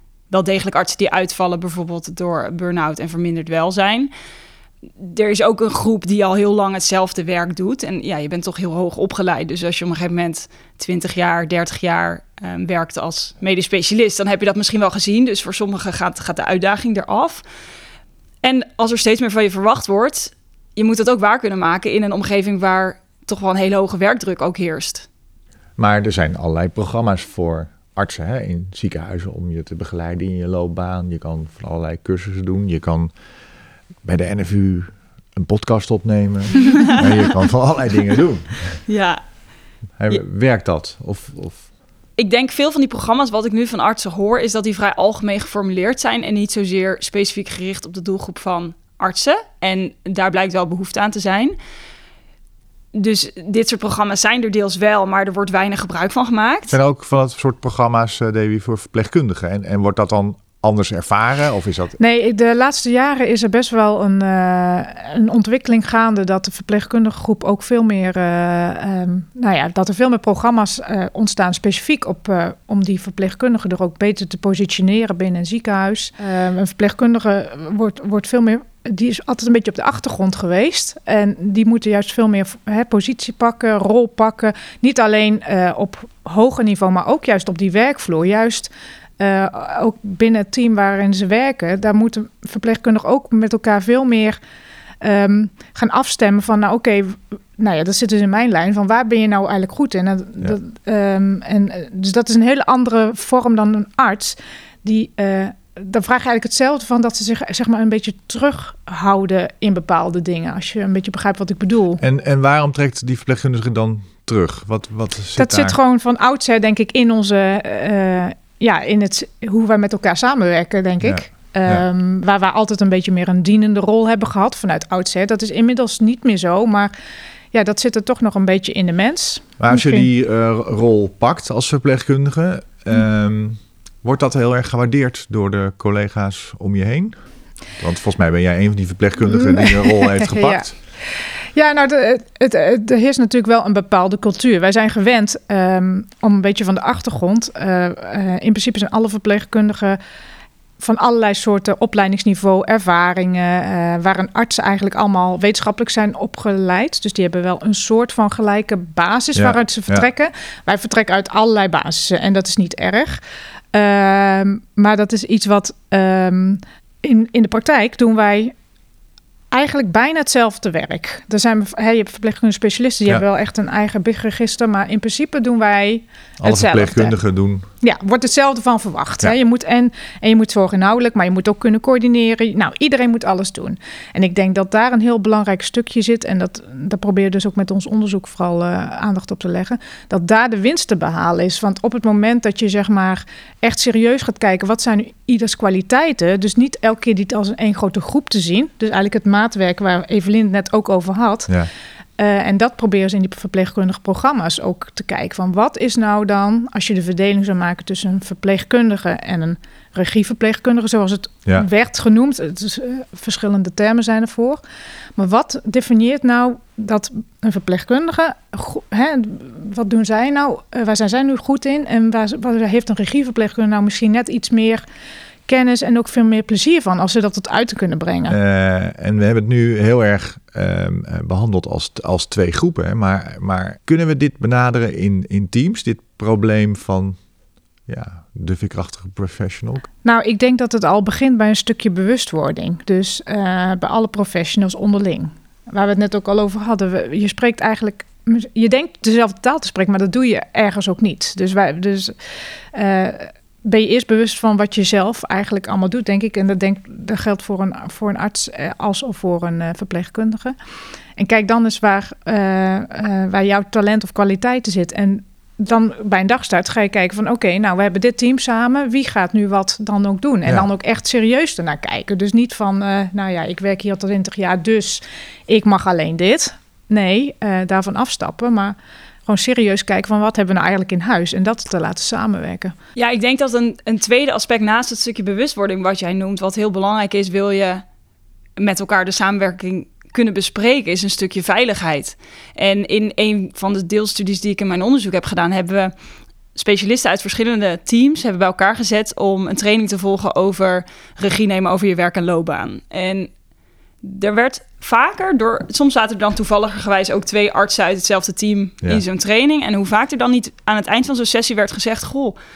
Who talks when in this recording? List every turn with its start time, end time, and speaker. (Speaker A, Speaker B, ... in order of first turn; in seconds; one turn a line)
Speaker A: 0.3-4.1
Speaker A: 5.0-17.4
Speaker A: 18.4-25.1
Speaker B: 25.8-33.1
Speaker B: 34.0-38.8
Speaker A: 38.9-39.2
Speaker B: 40.0-41.7
Speaker A: 42.2-51.5
Speaker A: 52.9-56.8
Speaker B: 56.7-62.0
Speaker C: 62.0-94.4
Speaker C: 95.0-112.0
Speaker B: 112.0-115.8
Speaker C: 115.4-126.9
Speaker B: 121.0-121.8
Speaker C: 127.5-130.1
Speaker B: 129.6-137.2
Speaker B: 137.8-140.7
Speaker C: 139.3-150.0
Speaker C: 150.8-163.2
Speaker B: 159.3-160.1
Speaker C: 163.7-168.5
Speaker C: 169.5-177.2
Speaker B: 176.4-177.7
Speaker C: 177.8-201.6
Speaker C: 202.2-214.6
Speaker C: 215.2-224.8
Speaker C: 225.5-228.4
Speaker B: 228.3-237.2
Speaker B: 237.9-239.9
Speaker C: 240.0-252.2
Speaker C: 252.7-260.6
Speaker C: 261.1-278.7
Speaker C: 279.3-282.7
Speaker A: 282.9-287.8
Speaker A: 288.6-295.9
Speaker A: 296.5-303.3
Speaker A: 304.0-312.4